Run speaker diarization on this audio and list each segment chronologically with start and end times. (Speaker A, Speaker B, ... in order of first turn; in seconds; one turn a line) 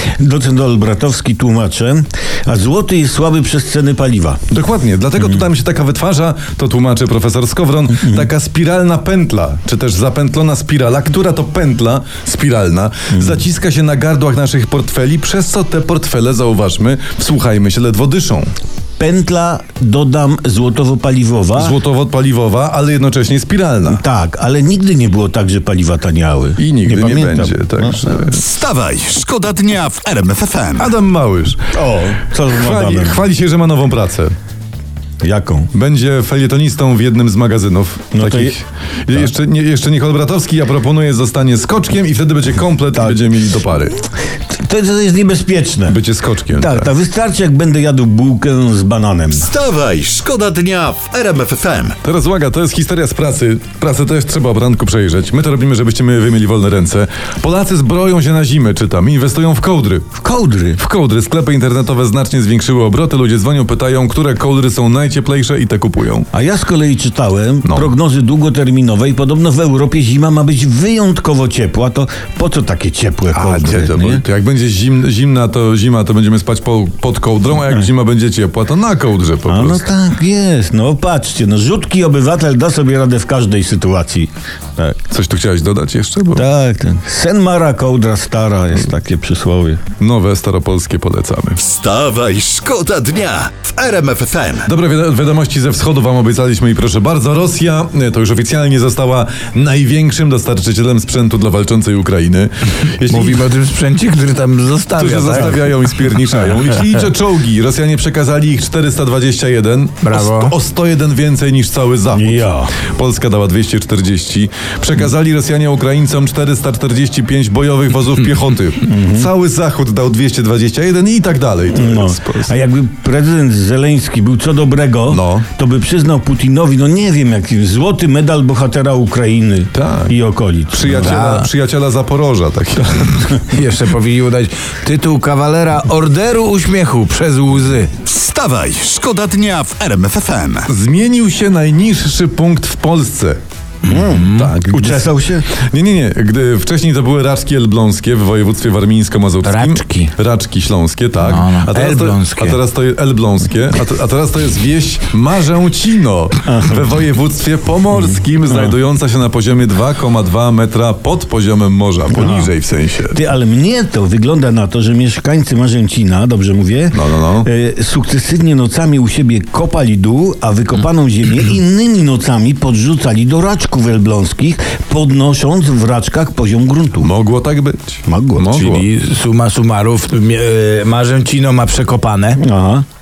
Speaker A: 0.2-4.4
Speaker B: 4.5-18.5
Speaker A: 19.0-21.8
Speaker B: 21.6-24.0
Speaker A: 23.9-28.1
Speaker B: 26.6-28.4
Speaker C: 28.3-30.9
Speaker B: 30.8-31.7
Speaker A: 31.7-33.3
Speaker B: 32.5-34.4
Speaker A: 35.2-35.7
Speaker B: 35.7-44.0
Speaker A: 38.1-38.6
Speaker A: 44.5-46.0
Speaker B: 45.9-46.9
Speaker A: 46.6-49.5
Speaker C: 49.3-52.0
Speaker B: 52.0-60.2
Speaker A: 60.2-60.8
Speaker B: 60.8-66.3
Speaker A: 66.3-74.2
Speaker B: 67.6-67.9
Speaker B: 73.3-79.8
Speaker A: 79.5-85.0
Speaker B: 85.1-86.4
Speaker A: 86.3-89.8
Speaker B: 90.0-91.6
Speaker C: 91.6-94.7
Speaker B: 94.7-103.5
Speaker D: 103.0-105.8
Speaker B: 105.0-122.5
Speaker D: 106.5-107.0
Speaker D: 110.0-110.5
Speaker A: 112.1-112.7
Speaker A: 118.8-119.3
Speaker A: 121.7-131.2
Speaker B: 125.1-125.5
Speaker B: 129.7-130.2
Speaker B: 130.7-133.3
Speaker D: 130.9-131.5
Speaker D: 133.3-137.9
Speaker C: 138.0-140.7
Speaker B: 140.7-143.4
Speaker D: 143.8-144.6
Speaker A: 143.8-145.5
Speaker B: 144.4-163.2
Speaker D: 149.4-150.1
Speaker D: 151.2-152.6
Speaker A: 156.4-156.8
Speaker A: 158.5-158.7
Speaker A: 162.1-162.5
Speaker A: 163.1-177.1
Speaker B: 166.9-167.5
Speaker B: 177.0-178.8
Speaker A: 178.1-178.5
Speaker D: 178.5-182.4
Speaker A: 182.4-182.8